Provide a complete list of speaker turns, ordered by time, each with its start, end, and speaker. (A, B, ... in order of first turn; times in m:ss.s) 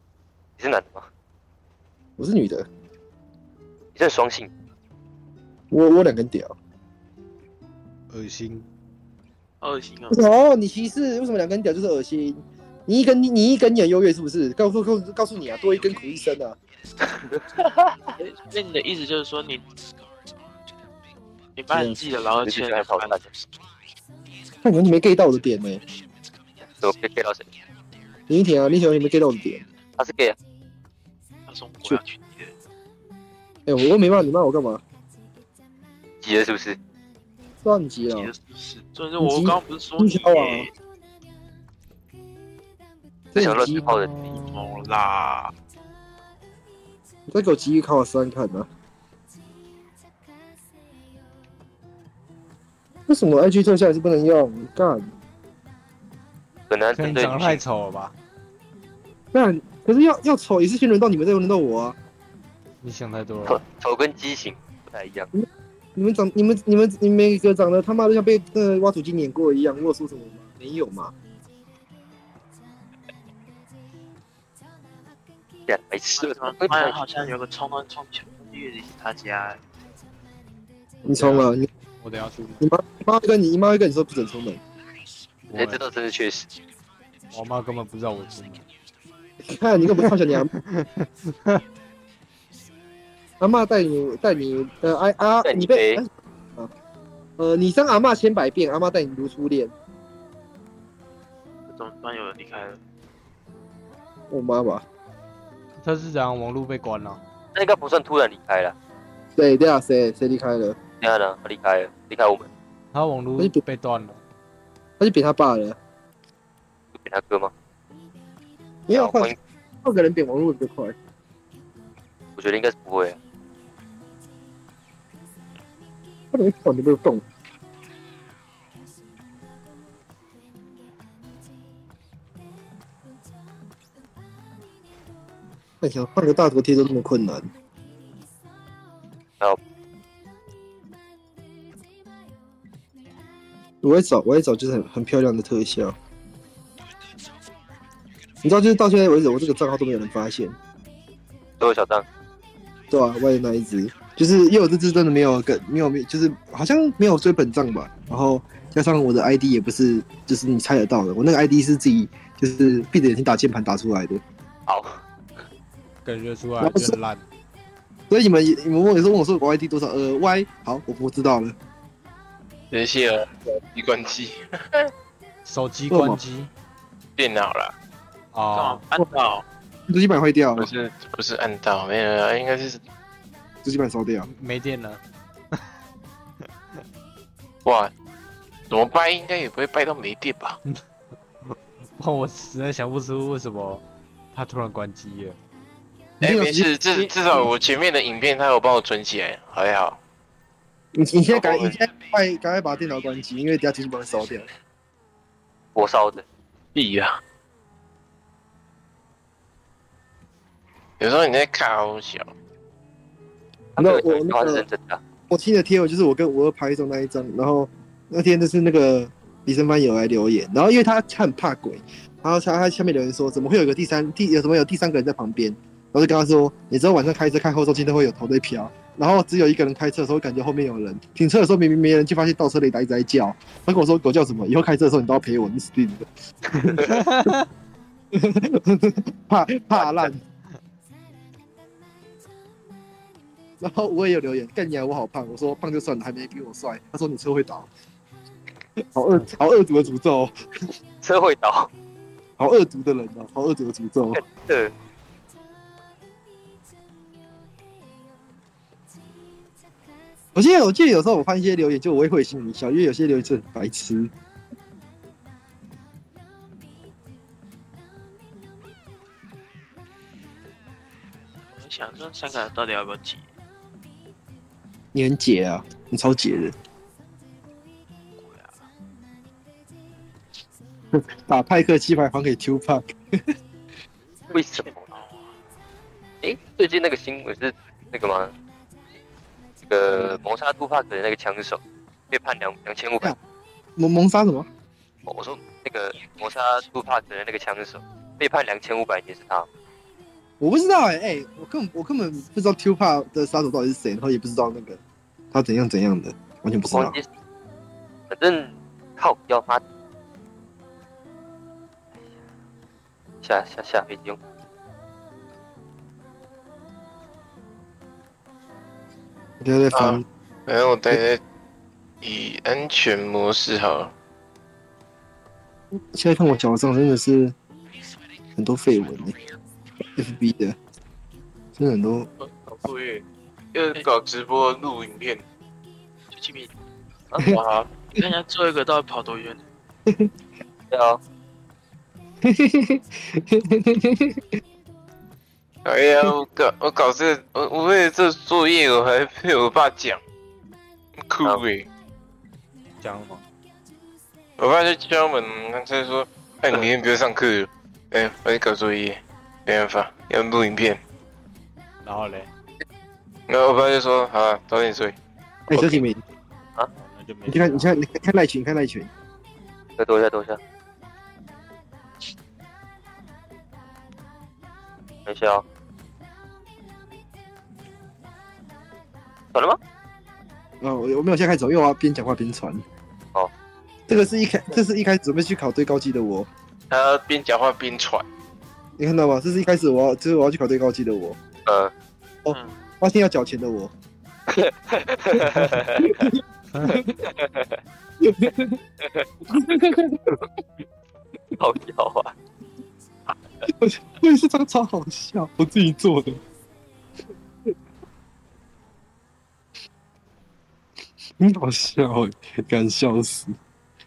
0:00.6-0:01.1 A
0:02.2-0:02.7 B
0:04.0-0:04.5 A
0:05.7-0:06.6 B
0:08.1-0:08.7 C
0:09.6-0:10.2 D
0:10.1-0:16.6 B
0:17.1-0:18.0 A
0:18.2-0:19.6 D
0:21.6-0:23.3 D
0:21.7-0:22.0 B
0:22.4-0:23.2 A
0:24.6-0:25.8 B
0:26.8-0:27.5 A
0:28.3-0:29.6 B
0:30.0-0:30.4 A
0:31.5-0:32.5 D
0:33.6-0:34.8 B
0:36.2-0:36.8 A
0:37.6-0:38.3 B
0:38.0-0:40.7 D
0:39.2-0:40.7 B
0:43.3-0:44.1 A
0:43.3-0:44.0 B
0:44.1-0:45.5 D
0:47.3-0:48.7 B
0:53.1-0:55.1 B
0:56.7-0:57.6 A
0:56.9-0:58.1 C
0:59.3-1:02.0 B
1:02.8-1:03.6 C
1:03.4-1:05.3 A
1:05.3-1:11.1 B
1:15.7-1:17.0 A
1:16.2-1:19.6 D
1:21.0-1:21.7 B
1:21.1-1:21.5 C
1:22.0-1:22.6 C
1:22.6-1:24.6 B
1:25.5-1:25.8 C
1:25.5-1:26.5 A
1:27.3-1:28.7 C
1:29.4-1:30.5 B
1:30.6-1:31.6 C
1:33.4-1:36.7 B
1:35.4-1:36.0 A
1:37.4-1:39.7 B
1:41.7-1:42.8 D
1:44.3-1:44.8 B
1:45.8-1:47.2 C
1:47.6-1:48.7 A
1:49.4-1:50.8 B
1:51.0-1:52.5 A
1:52.9-1:54.2 C
1:53.4-1:53.6 B
1:55.0-1:55.8 B
1:56.9-1:57.5 A
1:58.9-1:59.3 B
1:58.9-1:59.4 A
1:59.8-2:01.0 B
2:02.4-2:03.2 A
2:06.3-2:07.2 B
2:15.8-2:17.5 B
2:23.8-2:26.0 B
2:28.4-2:30.6 B
2:31.6-2:32.0 A
2:32.9-2:44.2 B
2:44.7-2:45.0 A
2:46.0-2:47.2 C
2:46.6-2:47.0 B
2:48.1-2:51.6 B
2:52.7-2:54.4 E
2:55.4-2:56.5 C
2:55.9-2:56.2 B
2:57.2-2:57.7 E
2:58.3-2:58.8 C
2:58.5-2:59.5 D
2:59.9-3:00.7 B
3:00.6-3:02.8 E
3:03.6-3:04.3 B
3:04.2-3:05.0 C
3:07.6-3:07.9 E
3:08.7-3:10.6 E
3:11.5-3:15.4 C
3:16.2-3:16.7 B
3:16.2-3:20.0 E
3:20.9-3:24.5 B
3:21.3-3:21.8 E
3:25.8-3:26.2 A
3:26.8-3:27.2 E
3:31.0-3:32.3 E
3:33.8-3:35.0 A
3:33.8-3:34.6 B
3:35.3-3:56.1 B
3:56.6-3:56.9 B
3:56.8-3:57.4 C
3:58.1-4:00.2 B
3:59.7-4:00.1 A
4:03.6-4:07.7 B
4:08.8-4:10.3 B
4:11.0-4:11.7 A
4:12.4-4:14.2 B
4:14.1-4:14.7 A
4:20.4-4:24.1 B
4:31.5-4:33.2 D
4:34.9-4:36.6 B
4:38.2-4:38.6 D
4:40.9-4:42.9 B
4:44.3-4:45.4 D
4:44.3-4:44.8 A
4:46.2-4:48.3 A
4:49.7-4:53.2 A
4:53.8-4:54.5 B
4:55.1-4:59.5 A
5:00.4-5:04.8 B
5:05.3-5:07.0 B
5:06.7-5:07.1 A
5:08.1-5:09.6 A
5:13.2-5:14.2 A
5:19.4-5:20.0 B
5:19.7-5:21.2 E
5:22.0-5:23.9 E
5:25.7-5:27.4 B
5:28.4-5:29.2 B
5:30.0-5:30.6 B
5:31.6-5:32.1 B
5:32.2-5:35.2 E
5:36.1-5:36.5 D
5:37.3-5:37.7 E
5:37.9-5:39.4 D
5:40.7-5:41.0 A
5:42.2-5:44.4 B
5:45.6-5:50.0 E
5:51.1-5:51.7 E
5:52.8-5:53.2 C
5:54.4-6:00.8 E
6:01.8-6:02.3 C
6:03.3-6:05.0 E
6:05.5-6:06.0 B
6:05.6-6:05.8 E
6:06.7-6:07.8 C
6:07.3-6:08.9 B
6:09.8-6:10.4 A
6:15.1-6:15.4 A
6:19.3-6:19.6 A
6:20.6-6:22.6 B
6:23.9-6:26.3 B
6:26.7-6:28.0 E
6:28.8-6:31.2 B
6:31.4-6:31.7 A
6:32.2-6:33.7 B
6:32.3-6:32.6 D
6:34.3-6:36.1 A
6:35.9-6:36.9 B
6:36.5-6:36.8 C
6:37.1-6:37.6 A
6:38.0-6:38.6 B
6:38.8-6:39.4 A
6:39.3-6:40.0 B
6:41.4-6:42.2 A
6:43.5-6:46.2 B
6:51.2-6:53.4 B